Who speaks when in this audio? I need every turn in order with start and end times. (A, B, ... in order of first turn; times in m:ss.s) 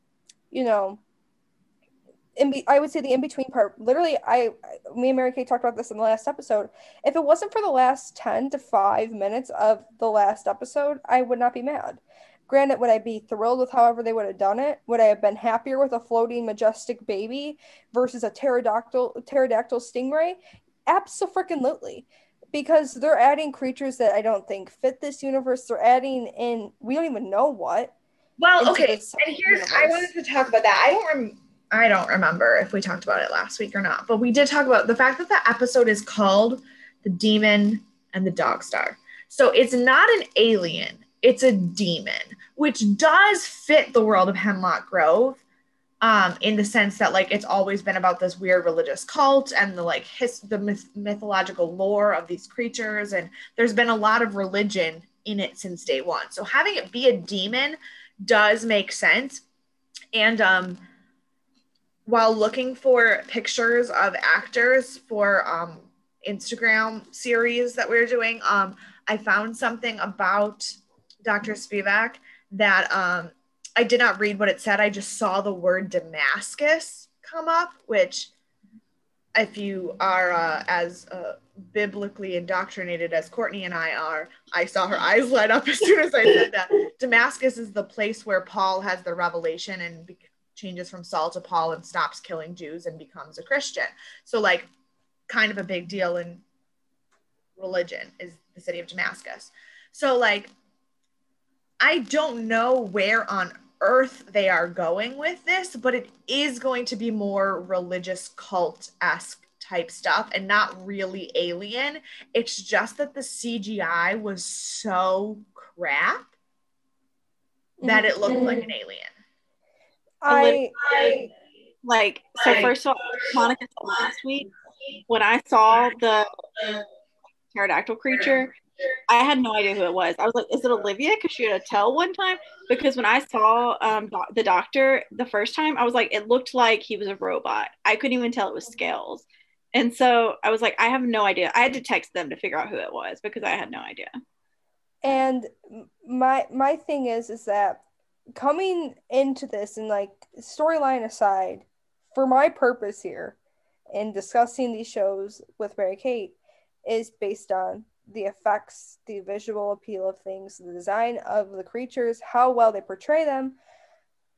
0:00.5-0:01.0 A
0:02.4-0:27.9 A
0:28.4-0:45.4 B
0:28.6-0:30.1 A
0:46.0-0:59.4 B
1:00.1-1:00.8 B
1:02.0-1:18.3 B
1:19.3-1:34.7 B
1:35.3-1:36.4 B
1:37.6-1:40.5 B
1:41.8-1:56.3 B
1:57.8-1:58.6 A
1:57.8-1:59.1 B
2:00.2-2:00.7 A
2:00.3-2:00.6 C
2:00.9-2:01.2 B
2:01.8-2:04.5 C
2:02.4-2:02.7 B
2:05.1-2:06.3 C
2:07.5-2:08.5 C
2:09.1-2:24.1 C
2:25.0-2:27.8 A
2:28.4-2:33.4 A
2:33.9-2:43.6 A